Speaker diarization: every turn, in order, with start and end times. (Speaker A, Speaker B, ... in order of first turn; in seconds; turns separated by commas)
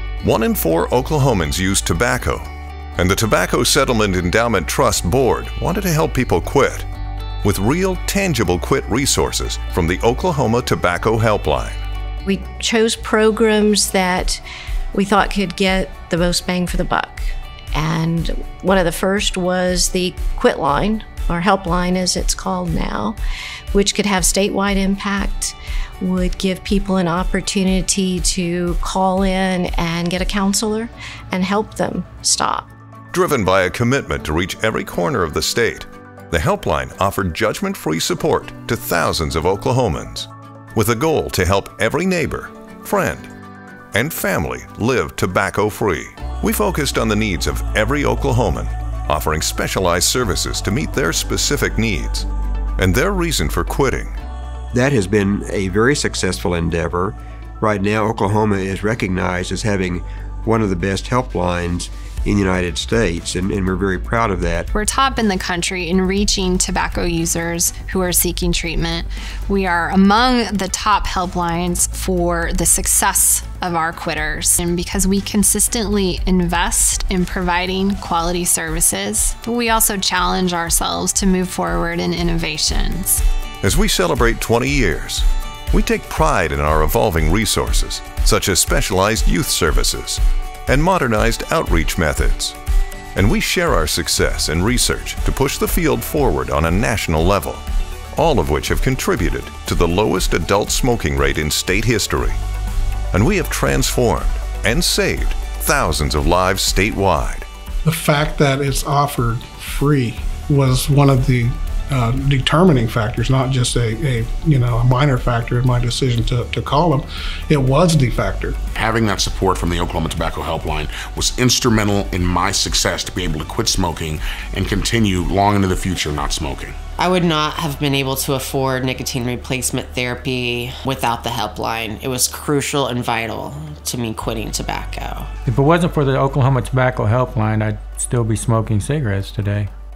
Speaker A: 0.2-6.9, Speaker A: 7.4-11.8, Speaker B: 12.3-14.4, Speaker B: 14.9-23.2, Speaker B: 23.7-32.7, Speaker A: 33.1-43.3, Speaker A: 43.9-52.3, Speaker A: 52.8-54.2, Speaker C: 54.7-64.7, Speaker D: 64.7-83.2, Speaker A: 83.6-92.6, Speaker A: 93.2-97.6, Speaker A: 98.2-102.4, Speaker A: 103.1-107.5, Speaker E: 107.8-118.6, Speaker F: 118.8-126.8, Speaker G: 127.0-135.3, Speaker H: 135.5-139.7